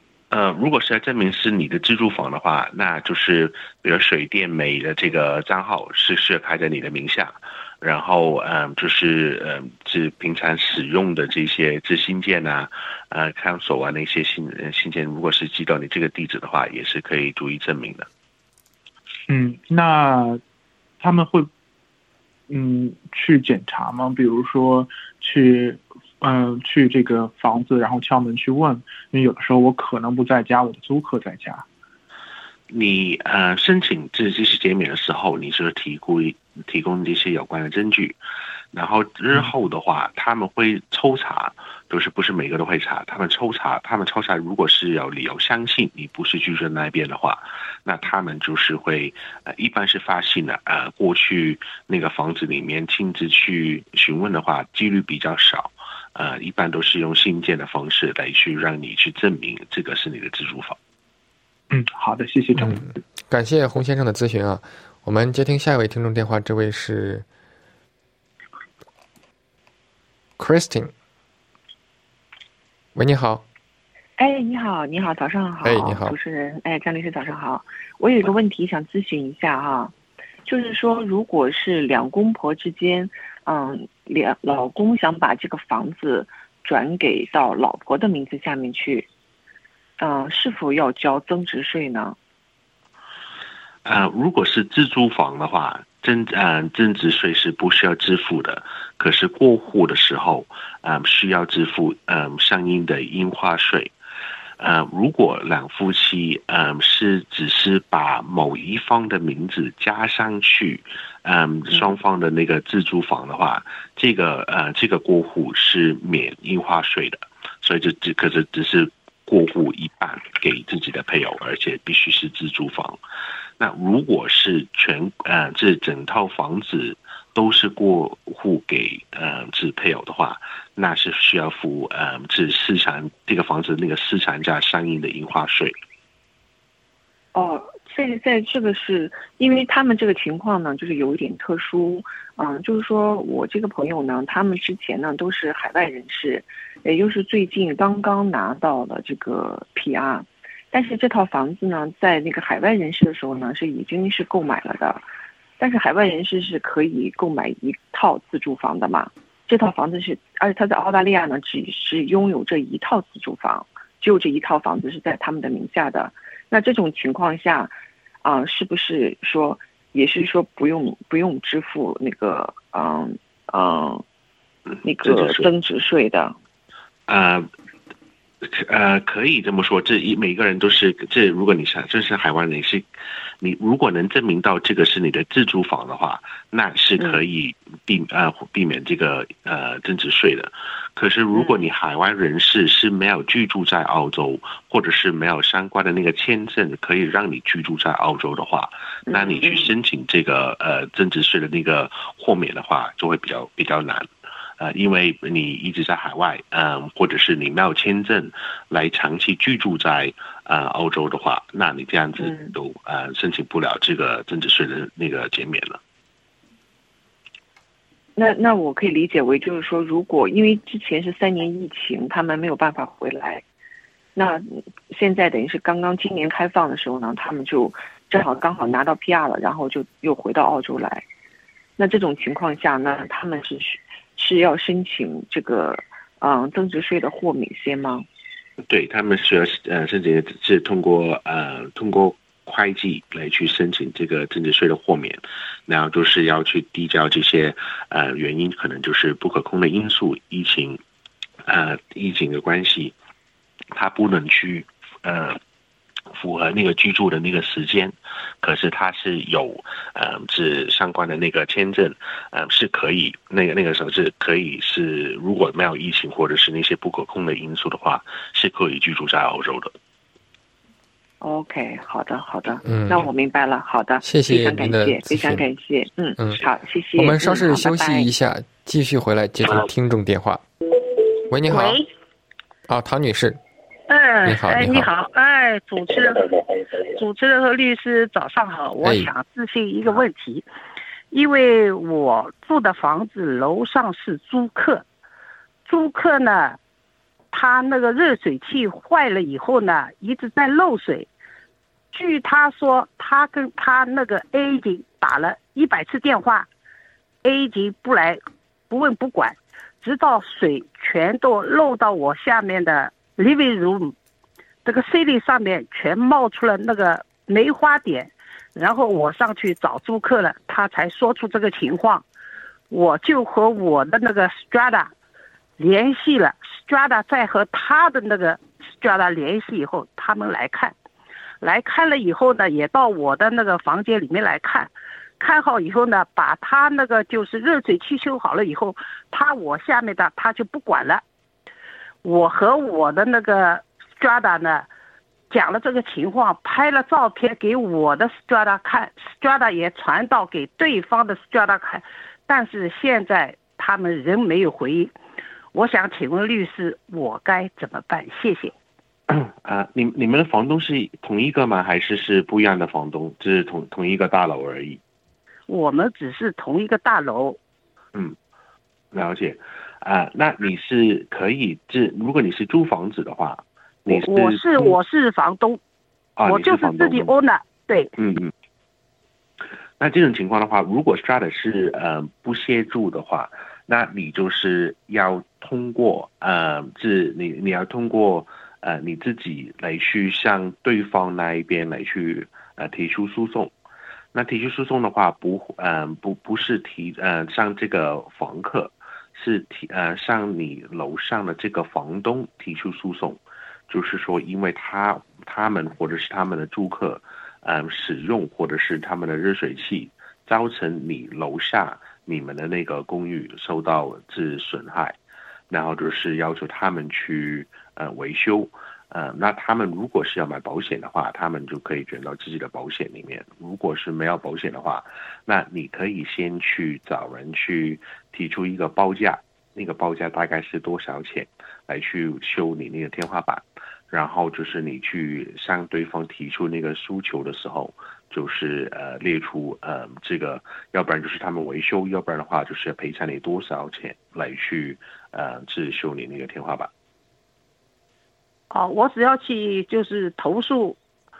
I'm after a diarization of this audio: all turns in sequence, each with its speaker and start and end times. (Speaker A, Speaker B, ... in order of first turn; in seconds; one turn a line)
Speaker A: 0.3-18.1
Speaker B: 19.3-20.4
Speaker B: 21.0-21.5
Speaker B: 22.5-31.6
Speaker A: 32.7-38.2
Speaker A: 38.7-60.8
Speaker B: 61.7-62.9
Speaker C: 62.6-67.2
Speaker C: 70.4-70.9
Speaker C: 72.9-73.4
Speaker D: 74.2-79.9
Speaker C: 75.6-76.1
Speaker D: 80.5-89.1
Speaker D: 90.0-92.2
Speaker A: 93.8-103.9
Speaker A: 104.6-123.0
Speaker A: 123.6-135.8
Speaker D: 137.3-155.0
Speaker D: 155.6-174.0
Speaker D: 174.8-176.3
Speaker A: 175.0-175.4
Speaker A: 177.1-177.5
Speaker A: 178.4-182.8
Speaker A: 183.4-204.1
Speaker D: 191.3-191.7
Speaker D: 199.1-199.7
Speaker A: 204.6-215.8
Speaker D: 218.2-223.4
Speaker D: 224.1-231.0
Speaker D: 231.8-238.1
Speaker A: 238.7-250.8
Speaker A: 251.5-252.9
Speaker A: 253.7-255.4
Speaker A: 256.1-269.7
Speaker D: 271.2-278.1
Speaker C: 272.6-273.1
Speaker C: 274.0-275.5
Speaker C: 276.9-280.4
Speaker C: 281.3-281.8
Speaker E: 281.5-281.9
Speaker C: 282.7-283.4
Speaker E: 283.9-286.3
Speaker C: 284.2-284.9
Speaker E: 286.9-290.4
Speaker C: 288.8-289.1
Speaker E: 291.1-294.8
Speaker E: 295.6-296.6
Speaker E: 297.3-301.1
Speaker E: 301.9-306.5
Speaker E: 307.2-313.9
Speaker E: 314.6-322.0
Speaker E: 322.7-324.9
Speaker E: 325.6-330.7
Speaker E: 331.4-341.0
Speaker E: 342.0-344.7
Speaker E: 345.3-354.9
Speaker E: 355.5-358.5
Speaker A: 359.1-364.8
Speaker E: 365.5-367.4
Speaker A: 368.9-374.8
Speaker E: 373.9-375.6
Speaker A: 376.2-377.1
Speaker E: 376.2-377.9
Speaker A: 377.9-378.3
Speaker A: 379.8-393.5
Speaker A: 394.1-415.0
Speaker A: 415.5-446.7
Speaker E: 448.5-450.8